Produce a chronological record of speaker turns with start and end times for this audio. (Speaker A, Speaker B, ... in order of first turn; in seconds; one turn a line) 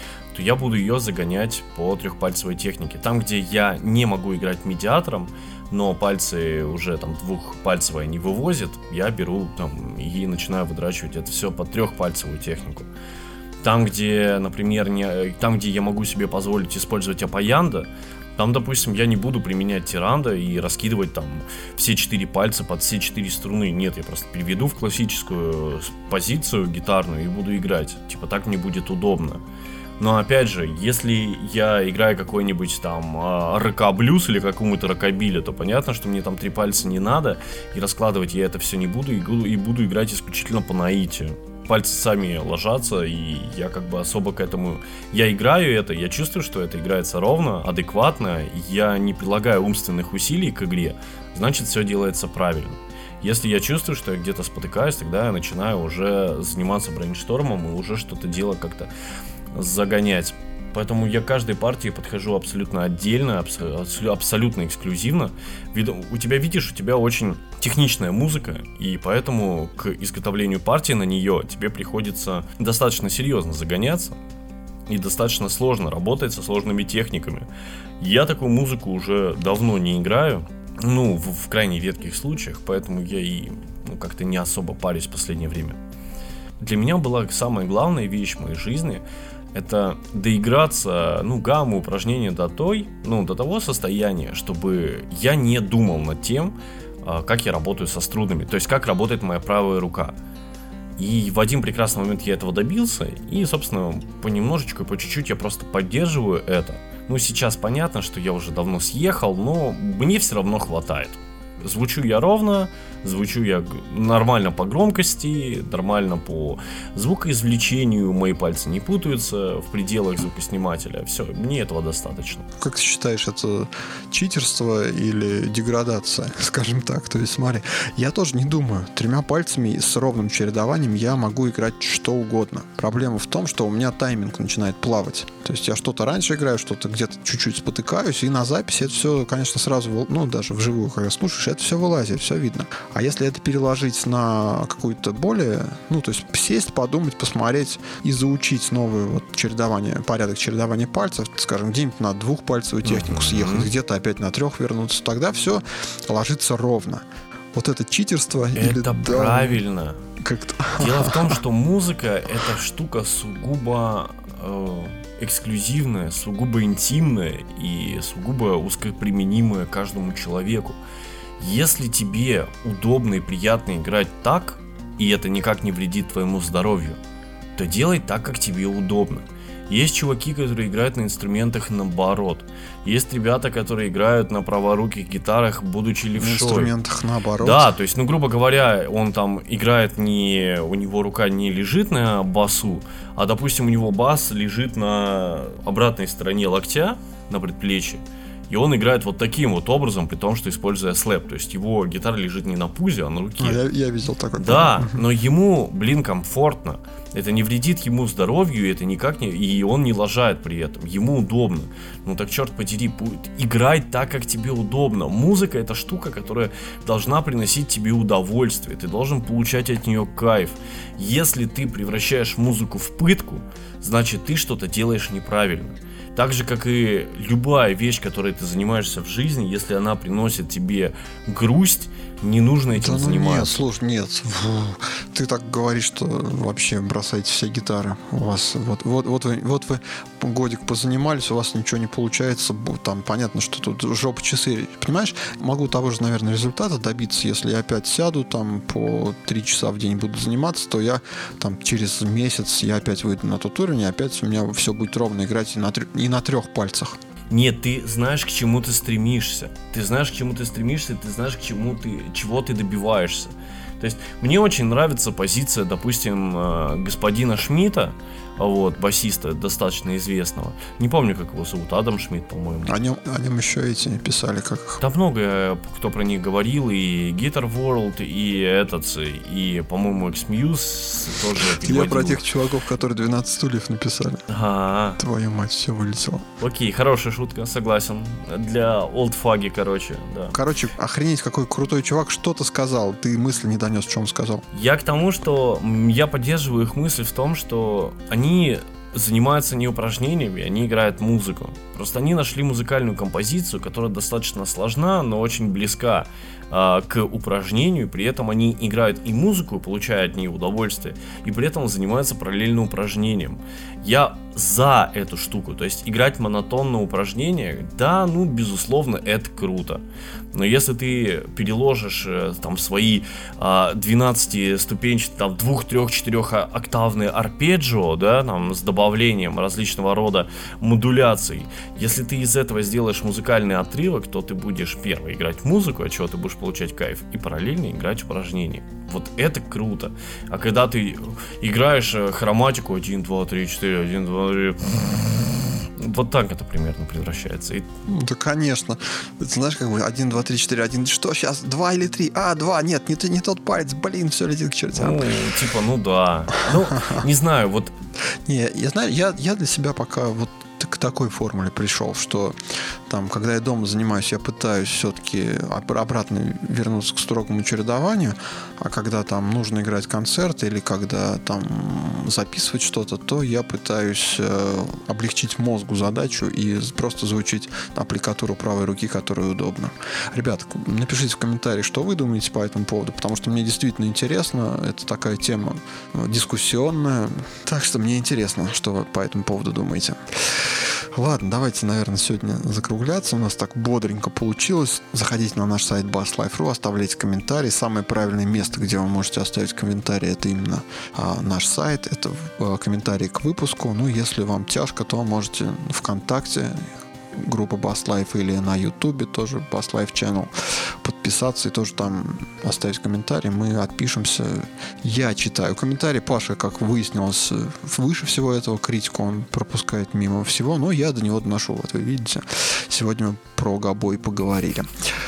Speaker A: 0.3-12.9
Speaker A: 13.6-29.4
Speaker A: 30.0-58.9
Speaker A: 59.5-74.2
Speaker A: 74.9-77.5
Speaker A: 78.0-85.8
Speaker A: 86.6-100.1
Speaker A: 101.0-122.5
Speaker B: 122.6-159.6
Speaker A: 152.8-153.7
Speaker A: 158.6-160.0
Speaker B: 160.2-161.4
Speaker A: 160.8-170.8
Speaker A: 171.4-177.0
Speaker A: 177.6-186.7
Speaker B: 186.2-187.7
Speaker A: 187.4-203.6
Speaker B: 203.4-205.1
Speaker A: 204.3-233.6
Speaker B: 232.7-257.0
Speaker A: 257.3-272.7
Speaker B: 272.7-274.8
Speaker A: 274.8-282.2
Speaker B: 281.4-284.3
Speaker A: 284.3-285.0
Speaker B: 285.0-286.3
Speaker A: 286.4-290.4
Speaker B: 290.3-294.4
Speaker A: 294.5-347.7
Speaker B: 347.9-355.1
Speaker A: 354.7-357.7
Speaker B: 356.5-357.1
Speaker B: 358.3-362.4
Speaker B: 362.9-390.0
Speaker B: 390.9-424.7